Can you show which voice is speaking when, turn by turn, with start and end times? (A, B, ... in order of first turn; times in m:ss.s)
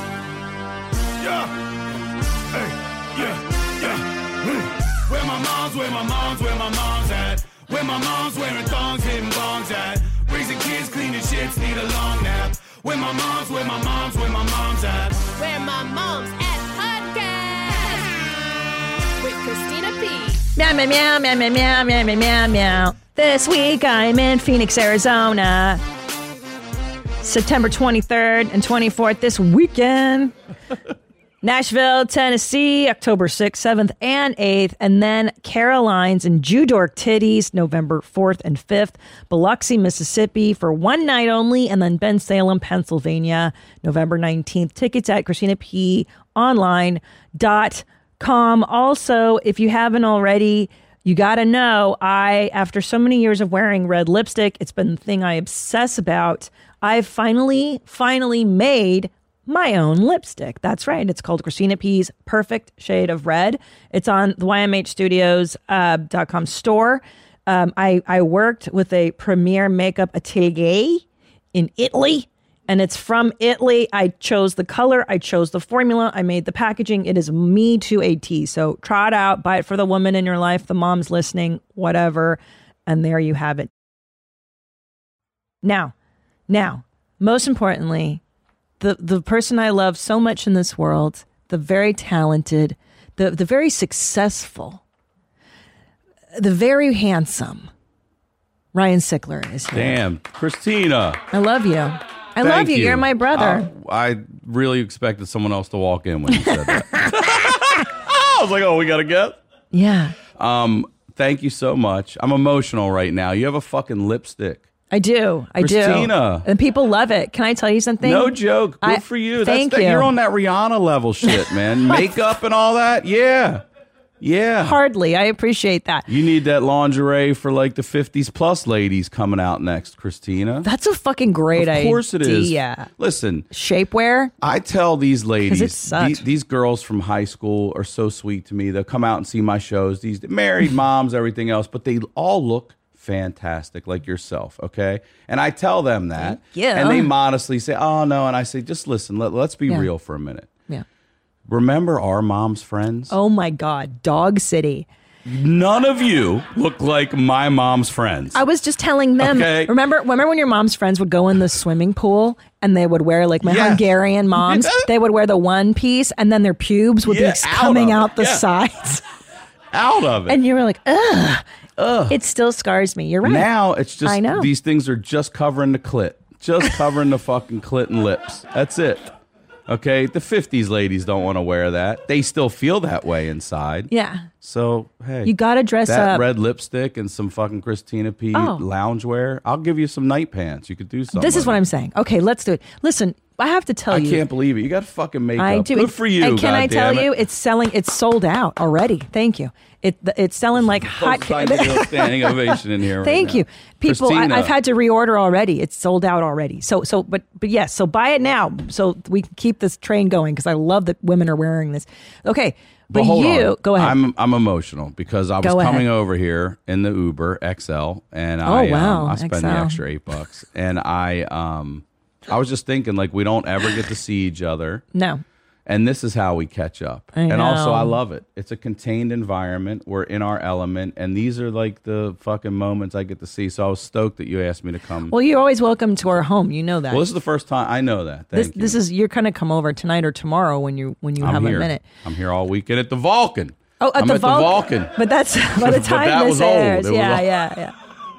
0:01.2-0:01.5 A
0:02.5-0:15.3 A
0:15.4-0:18.4 B
0:19.2-0:20.4 B
0:20.6-0:25.8 C
0:27.2-0:30.3 C
0:31.4-1:23.7 C
1:25.6-1:25.9 C
1:26.5-1:28.2 C
1:28.8-1:34.8 C
1:36.3-1:37.7 C
1:38.7-1:40.0 C
1:39.7-1:41.2 D
1:41.3-1:43.7 C
1:42.4-1:49.4 D
1:46.3-1:47.2 C
1:49.7-1:50.2 C
1:50.3-1:54.6 D
1:54.9-2:00.1 C
1:55.6-1:56.5 D
1:58.0-2:03.6 D
2:01.2-2:02.1 C
2:04.2-2:04.8 D
2:04.6-2:06.1 C
2:06.1-2:10.7 D
2:10.6-2:12.9 C
2:11.6-2:13.5 D
2:13.5-2:14.3 C
2:14.4-2:30.5 D
2:15.4-2:16.2 C
2:26.2-2:27.1 C
2:31.5-2:33.1 D
2:33.1-2:34.9 C
2:35.3-2:38.4 D
2:38.4-2:49.0 C
2:39.2-2:39.7 D
2:43.4-2:44.9 D
2:47.0-2:48.4 D
2:49.7-2:50.4 D
2:50.3-2:51.4 C
2:51.8-2:52.2 D
2:52.1-2:53.5 C
2:53.2-2:59.1 D
2:54.0-2:54.5 C
2:59.7-3:05.3 D
3:03.9-3:04.3 C
3:05.2-3:06.2 C
3:05.8-3:11.6 D
3:08.3-3:08.6 C
3:11.1-3:14.2 C
3:13.9-3:17.1 D
3:15.4-3:34.0 C
3:20.7-3:24.5 D
3:32.9-3:44.8 D
3:35.4-3:35.9 C
3:38.4-3:39.8 C
3:44.9-3:45.2 C
3:45.7-3:55.1 D
3:47.1-3:48.0 C
3:55.1-3:57.1 C
3:56.9-3:58.8 D
3:58.3-4:01.8 C
4:01.2-4:05.0 D
4:03.8-4:07.8 C
4:05.5-4:07.3 D